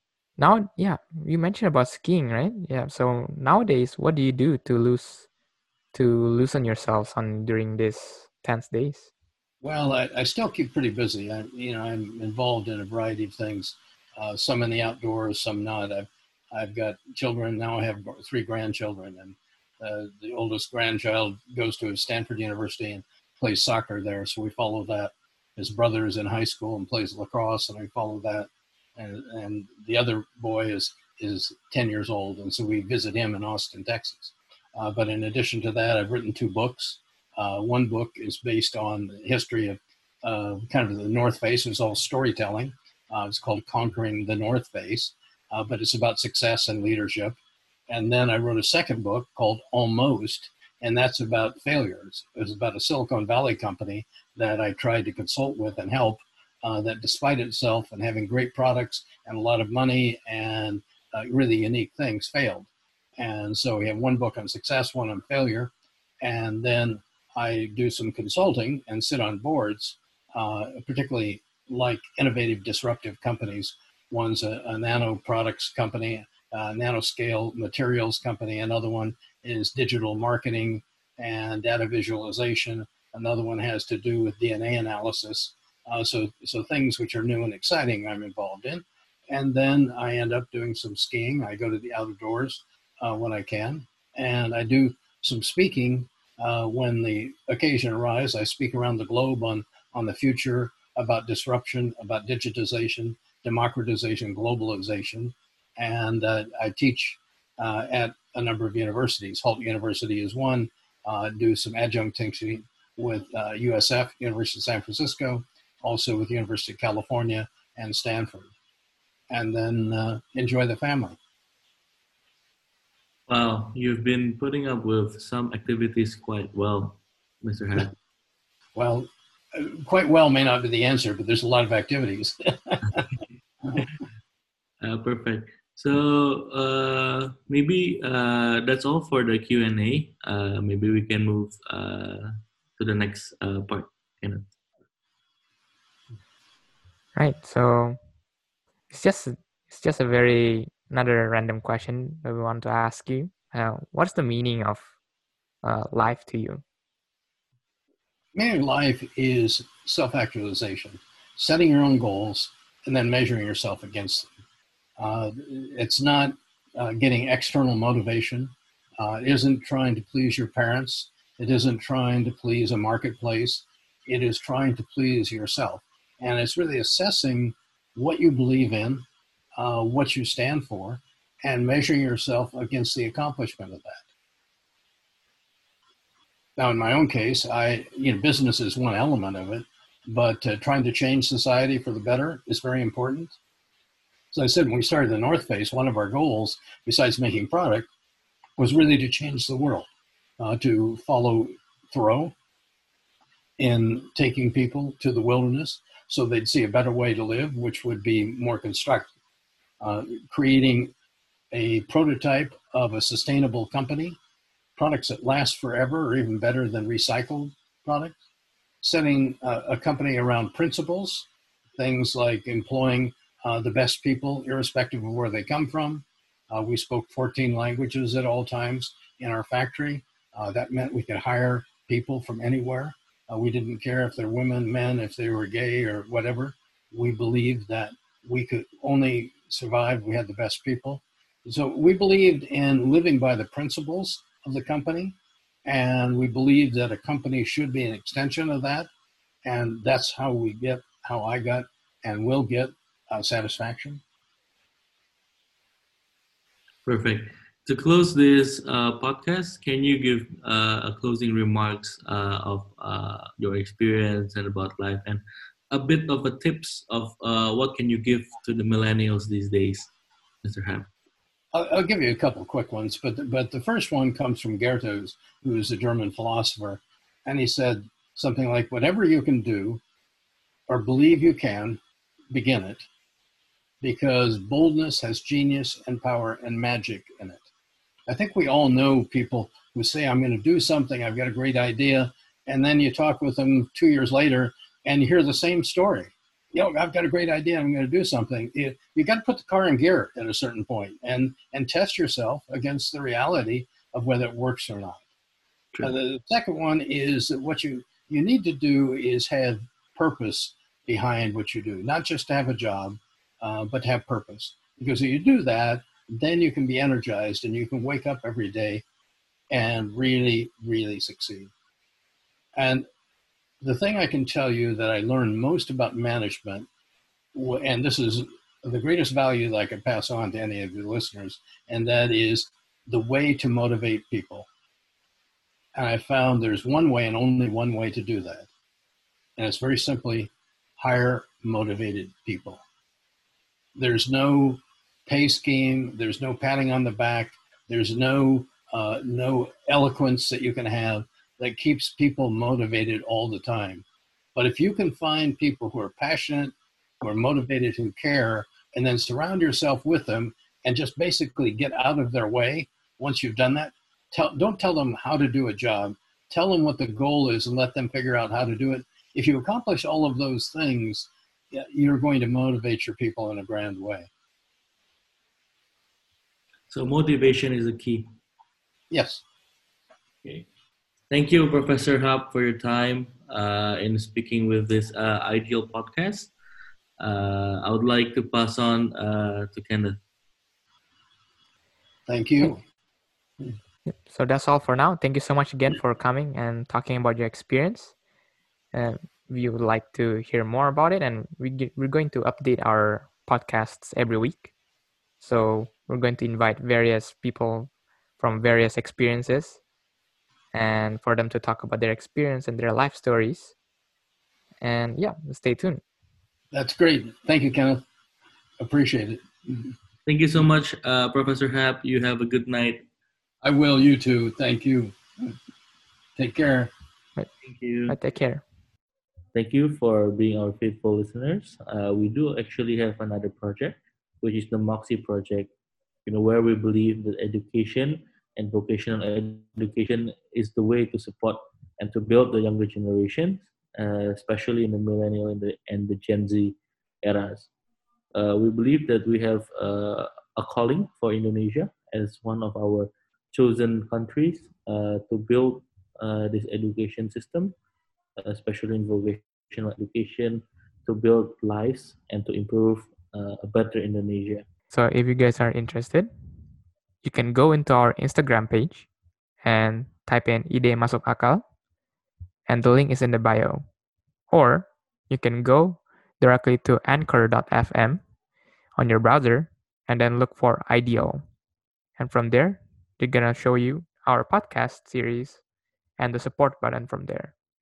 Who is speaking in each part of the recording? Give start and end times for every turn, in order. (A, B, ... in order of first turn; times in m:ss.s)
0:00.4-0:05.3 A
0:05.9-0:09.1 A
0:09.6-0:47.4 B
0:47.9-1:05.7 B
1:06.2-1:58.5 B
1:59.3-2:01.2 B
2:03.3-2:07.9 C
2:08.8-2:13.1 B
2:14.8-2:24.5 C
2:27.2-2:28.0 A
2:28.9-2:34.9 A
2:35.6-2:36.6 A
2:38.4-2:44.3 B
2:45.0-2:59.0 B
2:59.6-3:04.0 B
3:06.6-3:13.4 B
3:14.3-3:17.9 B
3:18.6-3:19.9 B
3:20.4-3:22.3 B
3:23.6-3:29.1 B
3:29.8-3:30.9 B
3:31.5-3:34.2 B
3:34.8-3:38.2 B
3:38.8-4:08.9 B
4:09.5-4:14.0 B
4:16.8-4:29.9 C
4:30.4-4:30.9 C
4:31.5-4:39.8 B
4:40.7-4:41.8 B
4:42.3-4:42.9 B
4:43.8-4:47.5 B
4:48.1-5:05.0 B
5:05.8-5:18.8 B
5:19.5-5:21.5 B
5:22.6-5:22.9 B
5:23.6-5:26.7 B
5:27.3-5:34.5 B
5:35.8-5:38.5 B
5:39.4-5:42.6 B
5:43.8-6:14.1 B
6:16.7-6:18.1 C
6:18.9-6:19.2 B
6:21.1-6:26.3 C
6:27.0-6:30.0 C
6:32.1-6:32.6 B
6:33.9-6:37.9 A
6:38.7-6:44.5 A
6:45.2-6:49.6 A
6:50.5-6:53.6 A
6:54.6-6:55.8 A
6:56.5-6:57.8 B
6:58.6-6:59.7 B
7:00.1-7:02.8 C
7:03.4-7:05.3 B
7:06.2-7:06.7 B
7:07.4-7:08.0 C
7:07.9-7:08.4 A
7:09.3-7:15.5 C
7:16.1-7:27.5 C
7:28.1-7:37.6 C
7:38.2-7:44.4 C
7:44.7-7:46.1 A
7:47.0-7:48.9 A
7:49.4-7:51.4 A
7:52.5-7:53.7 A
7:54.3-7:58.0 A
7:58.8-8:01.2 A
8:02.0-8:05.4 A
8:06.0-8:07.4 A